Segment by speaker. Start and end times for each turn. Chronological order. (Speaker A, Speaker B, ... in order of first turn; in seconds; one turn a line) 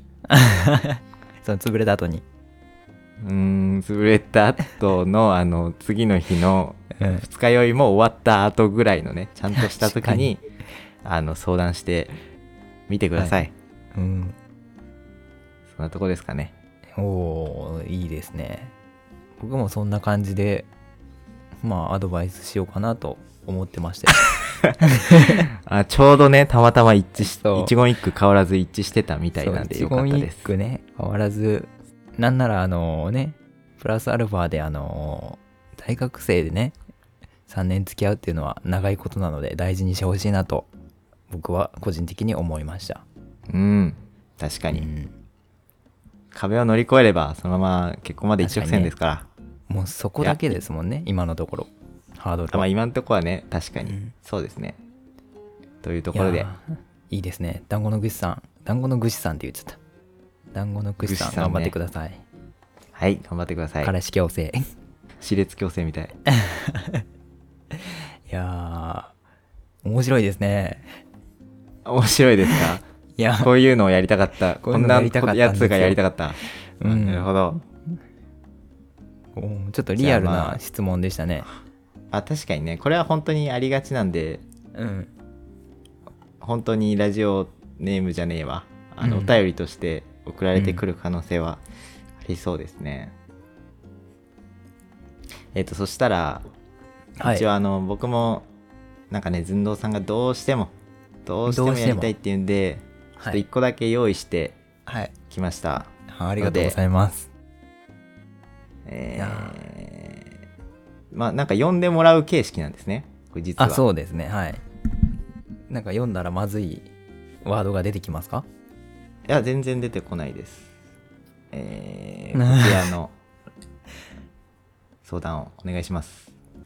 Speaker A: 0.3-2.2
Speaker B: 3.2-10.4
Speaker A: 7.0-7.3
Speaker A: 9.6-10.3
Speaker B: 11.1-12.2
Speaker B: 12.9-13.5
Speaker A: 13.2-13.4
Speaker A: 13.9-14.4
Speaker B: 15.7-16.5
Speaker A: 17.0-18.7
Speaker A: 19.4-20.7
Speaker A: 21.6-25.5
Speaker B: 24.3-30.5
Speaker A: 27.3-27.7
Speaker A: 29.4-36.8
Speaker A: 37.5-40.7
Speaker A: 41.3-43.0
Speaker B: 43.5-44.9
Speaker A: 44.7-45.1
Speaker B: 46.3-49.3
Speaker A: 48.4-48.9
Speaker A: 49.7-52.7
Speaker B: 52.5-54.8
Speaker A: 53.9-54.1
Speaker B: 55.8-56.5
Speaker A: 56.1-59.8
Speaker A: 60.5-62.2
Speaker B: 61.0-61.8
Speaker B: 63.0-63.9
Speaker A: 63.8-64.6
Speaker B: 65.2-66.2
Speaker A: 66.3-67.0
Speaker A: 67.7-69.1
Speaker A: 69.8-70.9
Speaker B: 71.8-72.8
Speaker A: 73.2-73.5
Speaker B: 73.4-77.6
Speaker A: 74.6-76.0
Speaker A: 76.8-77.3
Speaker A: 79.4-81.5
Speaker B: 80.0-80.6
Speaker B: 82.1-84.4
Speaker A: 84.8-85.1
Speaker B: 86.4-91.6
Speaker A: 89.0-89.4
Speaker A: 90.5-90.8
Speaker B: 92.2-93.2
Speaker B: 95.5-96.4
Speaker A: 97.2-97.5
Speaker B: 97.2-98.5
Speaker B: 99.1-100.7
Speaker B: 101.2-104.6
Speaker A: 101.5-102.1
Speaker A: 103.2-103.4
Speaker A: 104.9-105.1
Speaker B: 105.3-106.8
Speaker A: 106.1-107.3
Speaker B: 108.8-110.3
Speaker A: 109.2-109.6
Speaker B: 111.1-113.8
Speaker A: 113.6-114.6
Speaker A: 115.7-116.9
Speaker A: 117.5-118.5
Speaker B: 119.3-120.7
Speaker B: 121.5-123.1
Speaker A: 122.3-122.9
Speaker B: 125.0-126.3